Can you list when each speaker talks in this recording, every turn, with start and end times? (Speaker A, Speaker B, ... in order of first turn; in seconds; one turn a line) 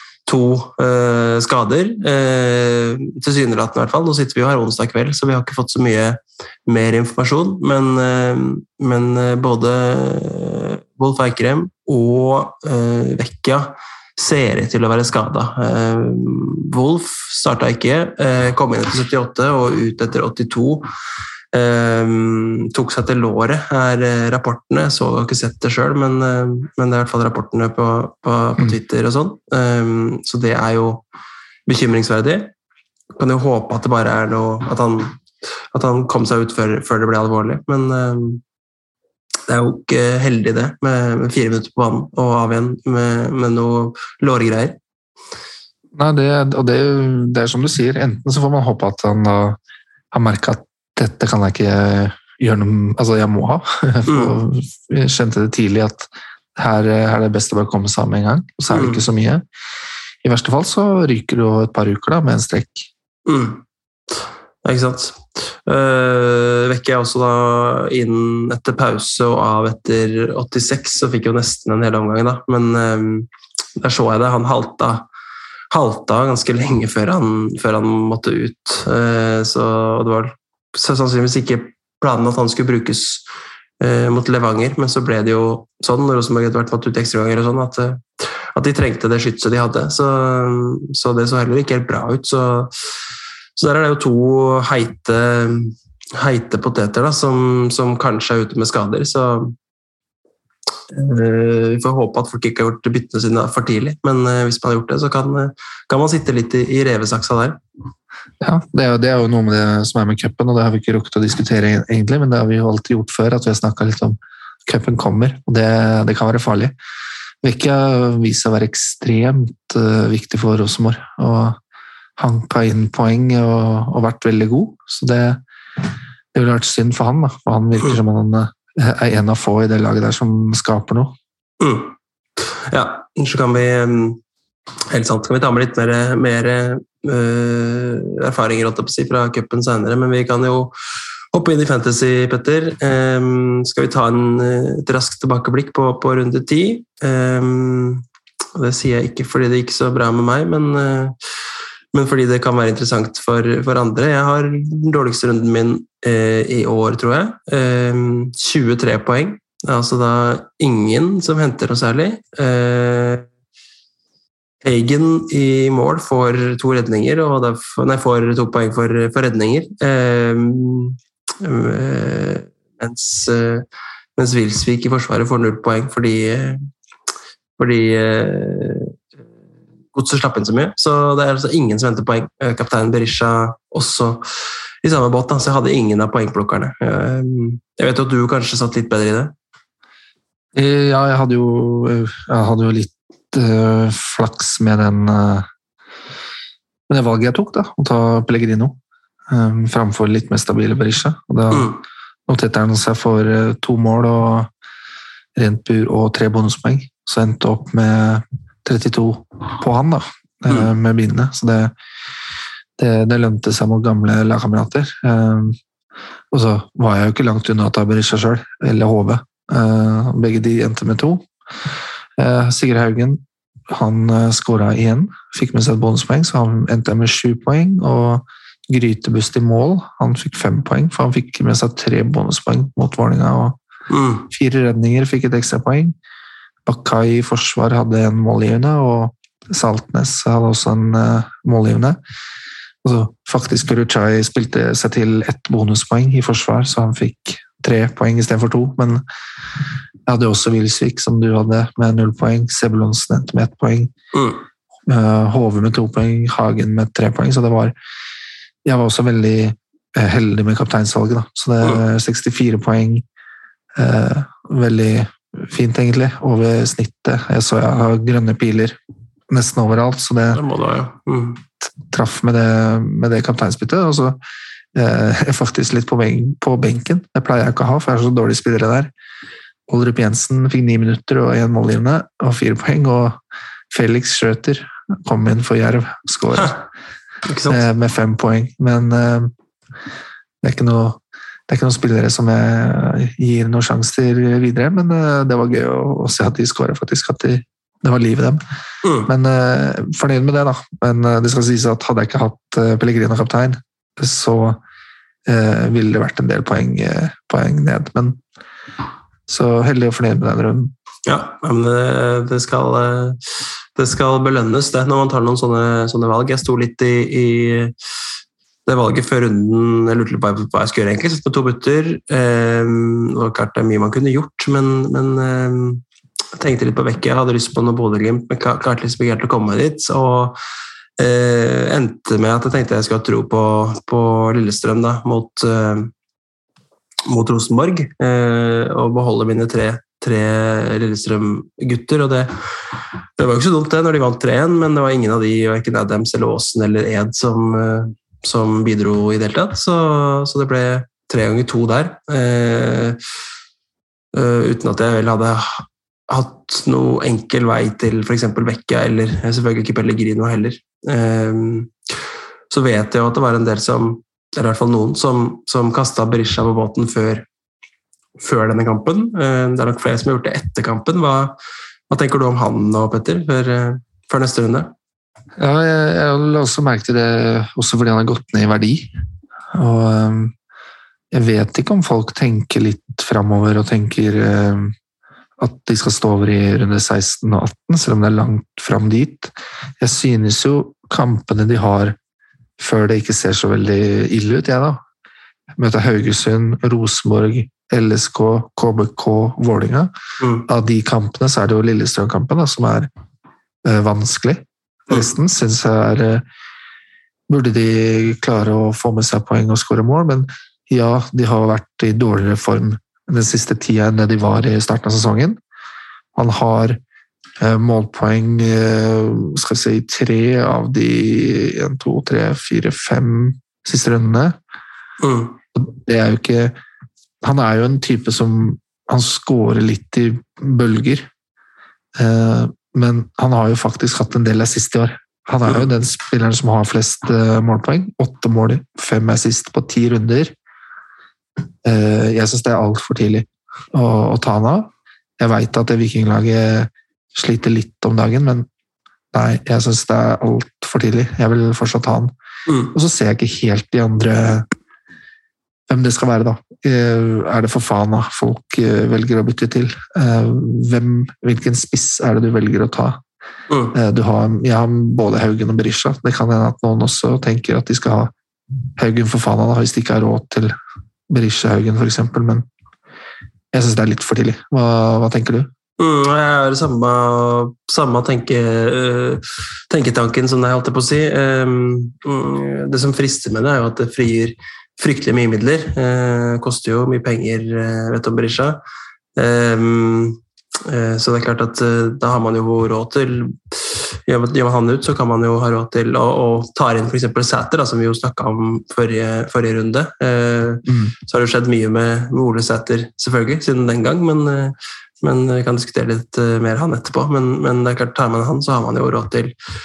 Speaker A: 0.3-20.9
Speaker A: 21.5-31.0
Speaker A: 31.6-32.5
Speaker A: 33.1-35.2
Speaker A: 35.7-38.4
Speaker A: 39.5-44.8
Speaker B: 45.9-49.6
Speaker B: 50.1-59.4
Speaker A: 54.1-54.4
Speaker A: 58.7-59.0
Speaker B: 60.2-62.9
Speaker A: 63.2-63.6
Speaker A: 64.6-75.1
Speaker A: 75.7-83.2
Speaker A: 83.8-92.7
Speaker A: 93.6-99.5
Speaker A: 100.9-107.6
Speaker B: 108.4-116.7
Speaker B: 117.4-121.6
Speaker B: 122.2-125.4
Speaker B: 126.3-131.1
Speaker A: 131.6-131.9
Speaker A: 132.7-134.2
Speaker A: 134.9-140.8
Speaker A: 141.3-148.0
Speaker A: 148.6-151.1
Speaker A: 151.9-163.3
Speaker A: 164.6-173.6
Speaker A: 174.2-176.7
Speaker A: 177.6-179.0
Speaker A: 179.9-184.2
Speaker A: 184.8-189.3
Speaker B: 190.5-195.5
Speaker B: 196.9-198.8
Speaker B: 199.3-201.7
Speaker A: 201.5-201.8
Speaker B: 202.3-204.5
Speaker B: 205.4-211.7
Speaker B: 212.8-215.6
Speaker B: 216.3-221.3
Speaker B: 222.2-233.6
Speaker A: 233.9-234.3
Speaker B: 234.3-235.9
Speaker B: 236.7-242.0
Speaker B: 242.8-249.0
Speaker B: 250.1-253.9
Speaker A: 254.1-254.4
Speaker B: 254.9-257.8
Speaker B: 258.6-263.1
Speaker B: 263.8-268.8
Speaker B: 269.3-270.4
Speaker A: 270.3-271.4
Speaker B: 271.8-274.2
Speaker B: 274.7-278.9
Speaker B: 279.7-283.2
Speaker B: 283.7-286.6
Speaker A: 287.3-287.6
Speaker B: 287.5-289.3
Speaker B: 290.4-298.4
Speaker A: 298.8-299.1
Speaker B: 299.1-304.6
Speaker B: 305.3-308.2
Speaker B: 309.3-310.7
Speaker A: 311.1-317.7
Speaker A: 318.7-325.8
Speaker A: 326.4-330.4
Speaker A: 331.0-335.9
Speaker A: 337.1-342.3
Speaker A: 343.2-353.0
Speaker A: 354.1-361.7
Speaker A: 362.5-367.2
Speaker A: 368.2-371.4
Speaker A: 371.9-374.7
Speaker B: 375.4-378.9
Speaker B: 379.5-380.3
Speaker B: 381.1-384.7
Speaker B: 385.4-391.9
Speaker B: 392.6-394.8
Speaker B: 395.6-399.9
Speaker A: 400.2-400.5
Speaker B: 400.5-402.9
Speaker B: 403.6-406.2
Speaker B: 407.3-415.4
Speaker B: 416.1-416.8
Speaker B: 417.4-424.4
Speaker A: 425.0-425.4
Speaker B: 425.5-426.6
Speaker B: 427.2-431.1
Speaker B: 432.0-440.3
Speaker B: 441.6-448.5
Speaker B: 449.1-452.1
Speaker A: 452.5-452.7
Speaker B: 452.7-454.5
Speaker B: 455.7-463.0
Speaker A: 463.5-463.7
Speaker B: 463.7-468.1
Speaker B: 468.8-470.6
Speaker B: 471.1-472.4
Speaker B: 473.5-475.5
Speaker A: 475.8-488.6
Speaker A: 489.2-509.3
Speaker B: 500.7-500.9